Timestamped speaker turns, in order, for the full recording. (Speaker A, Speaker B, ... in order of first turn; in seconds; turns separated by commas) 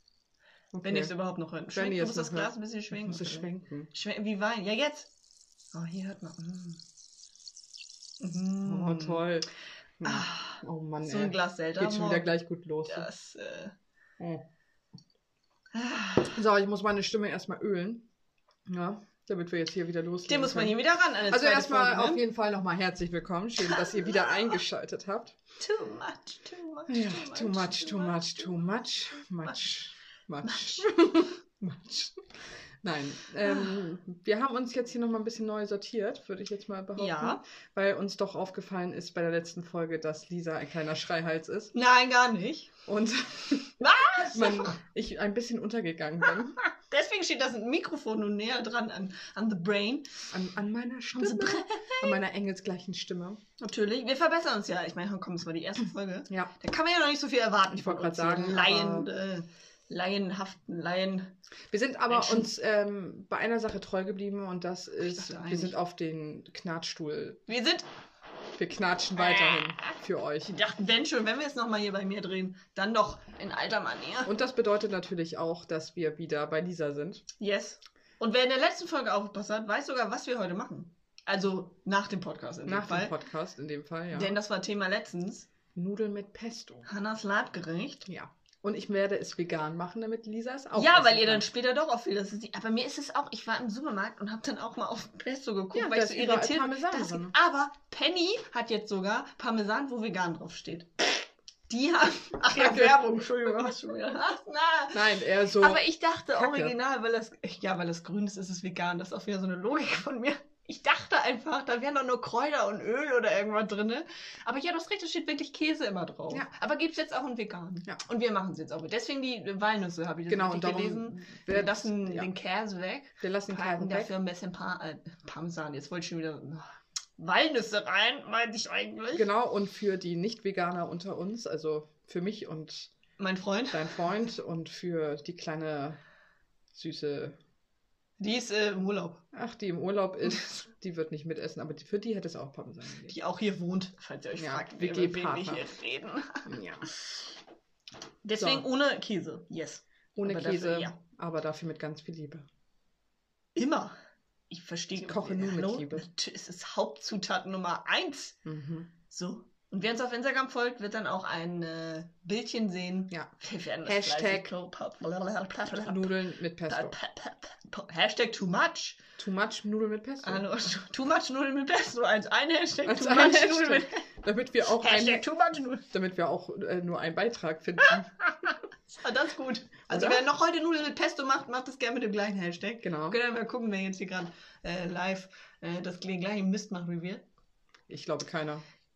Speaker A: 0.7-5.1, Speaker B: 0.8-1.1, Speaker B: 1.7-3.9, Speaker A: 5.7-6.8, Speaker A: 8.2-9.3, Speaker B: 8.7-9.5, Speaker B: 10.0-13.1, Speaker A: 10.0-12.3, Speaker A: 12.9-13.7, Speaker A: 15.7-16.4, Speaker B: 16.3-18.1, Speaker B: 18.7-25.4, Speaker A: 20.3-22.2, Speaker A: 23.6-24.3, Speaker A: 25.6-28.6, Speaker B: 26.9-32.2, Speaker A: 30.4-30.9, Speaker B: 32.8-41.7, Speaker A: 33.4-33.7, Speaker A: 37.0-37.4, Speaker A: 41.7-42.7, Speaker B: 42.9-46.6, Speaker A: 43.8-44.8, Speaker A: 46.6-50.1, Speaker B: 50.3-53.4, Speaker A: 51.2-52.1, Speaker A: 53.6-61.3, Speaker B: 57.7-59.1, Speaker B: 61.7-67.4, Speaker A: 62.1-62.5, Speaker A: 65.0-65.8, Speaker A: 67.5-67.8, Speaker B: 68.5-70.5, Speaker A: 69.2-74.3, Speaker B: 74.2-77.2, Speaker A: 77.4-83.1, Speaker B: 82.7-84.4, Speaker A: 84.1-85.5, Speaker B: 85.7-86.8, Speaker A: 86.8-88.1, Speaker B: 88.0-91.4, Speaker A: 90.7-129.3, Speaker B: 95.7-97.3, Speaker B: 102.5-103.0, Speaker B: 104.9-105.8, Speaker B: 106.3-106.7, Speaker B: 120.3-122.3, Speaker B: 123.2-124.1, Speaker B: 129.1-132.9, Speaker A: 133.2-134.0, Speaker B: 133.7-136.0, Speaker B: 136.7-137.4, Speaker A: 138.2-139.2, Speaker B: 139.3-143.1, Speaker A: 143.1-146.6, Speaker B: 144.3-145.7, Speaker B: 146.5-146.8, Speaker A: 148.2-151.0, Speaker B: 148.3-148.7, Speaker B: 150.1-152.5, Speaker A: 153.5-153.9, Speaker A: 154.5-158.4, Speaker B: 155.0-156.0, Speaker B: 158.4-158.9, Speaker A: 159.1-166.1, Speaker B: 163.8-164.5, Speaker B: 165.7-166.9, Speaker A: 166.7-169.0, Speaker B: 169.2-170.4, Speaker A: 170.2-174.1, Speaker B: 172.8-175.2, Speaker A: 174.7-175.8, Speaker B: 175.9-178.1, Speaker A: 177.8-187.2, Speaker B: 179.9-180.2, Speaker B: 182.8-183.2, Speaker B: 187.9-188.6